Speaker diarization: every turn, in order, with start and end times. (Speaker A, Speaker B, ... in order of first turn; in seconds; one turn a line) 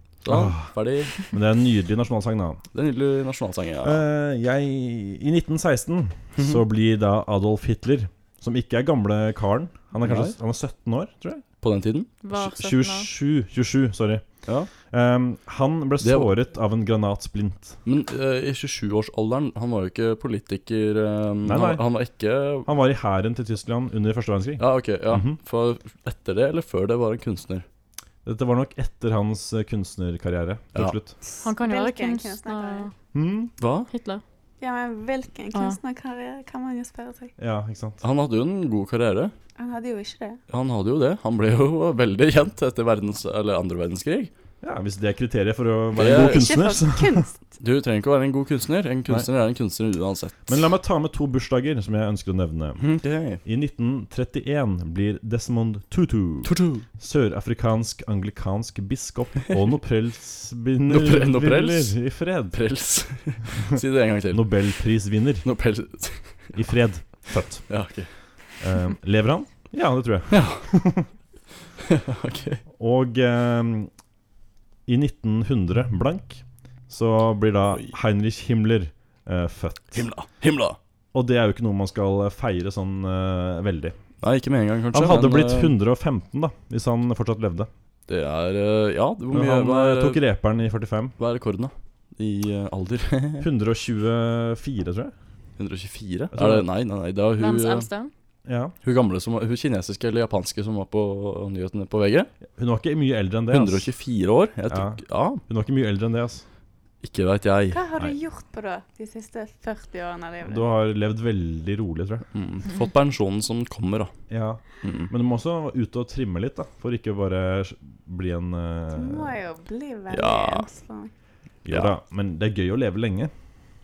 Speaker A: 0.2-1.1
Speaker B: 0.3-2.6
Speaker A: 2.7-4.0
Speaker B: 3.8-11.4
Speaker A: 6.3-6.6
Speaker A: 10.0-10.3
Speaker A: 11.6-12.1
Speaker C: 12.2-13.1
Speaker B: 12.3-17.8
Speaker A: 16.0-16.3
Speaker A: 17.8-22.7
Speaker B: 21.4-21.9
Speaker B: 22.6-25.4
Speaker A: 24.6-27.6
Speaker B: 28.2-31.2
Speaker D: 31.3-32.9
Speaker C: 31.4-32.9
Speaker B: 33.1-33.5
Speaker A: 33.6-33.9
Speaker C: 33.9-34.2
Speaker D: 34.6-37.3
Speaker C: 35.5-35.8
Speaker B: 37.4-38.0
Speaker A: 38.0-39.3
Speaker D: 39.6-40.4
Speaker A: 40.5-44.3
Speaker B: 44.6-47.2
Speaker A: 45.9-46.5
Speaker D: 46.0-47.4
Speaker A: 47.6-50.6
Speaker B: 50.5-52.9
Speaker A: 52.8-53.4
Speaker B: 53.4-62.6
Speaker A: 56.4-56.9
Speaker A: 60.9-64.7
Speaker B: 64.3-65.5
Speaker A: 65.4-66.7
Speaker B: 66.5-67.8
Speaker A: 67.7-68.1
Speaker B: 68.6-71.1
Speaker A: 70.3-70.7
Speaker A: 71.9-72.6
Speaker B: 72.8-73.9
Speaker B: 74.9-80.1
Speaker A: 79.9-80.8
Speaker B: 81.1-84.0
Speaker A: 84.2-85.7
Speaker B: 84.9-87.7
Speaker A: 88.1-90.2
Speaker B: 89.3-91.2
Speaker A: 91.2-93.5
Speaker B: 93.4-95.1
Speaker A: 95.6-97.9
Speaker B: 96.3-96.7
Speaker C: 97.4-98.1
Speaker B: 98.5-98.7
Speaker A: 98.8-102.3
Speaker B: 102.5-103.9
Speaker A: 103.5-105.4
Speaker B: 104.7-106.4
Speaker A: 107.0-107.8
Speaker D: 107.7-110.7
Speaker B: 110.4-112.2
Speaker A: 112.3-114.1
Speaker B: 114.3-119.3
Speaker A: 114.8-115.1
Speaker D: 118.9-121.1
Speaker A: 120.1-120.7
Speaker B: 121.6-123.3
Speaker A: 121.7-121.9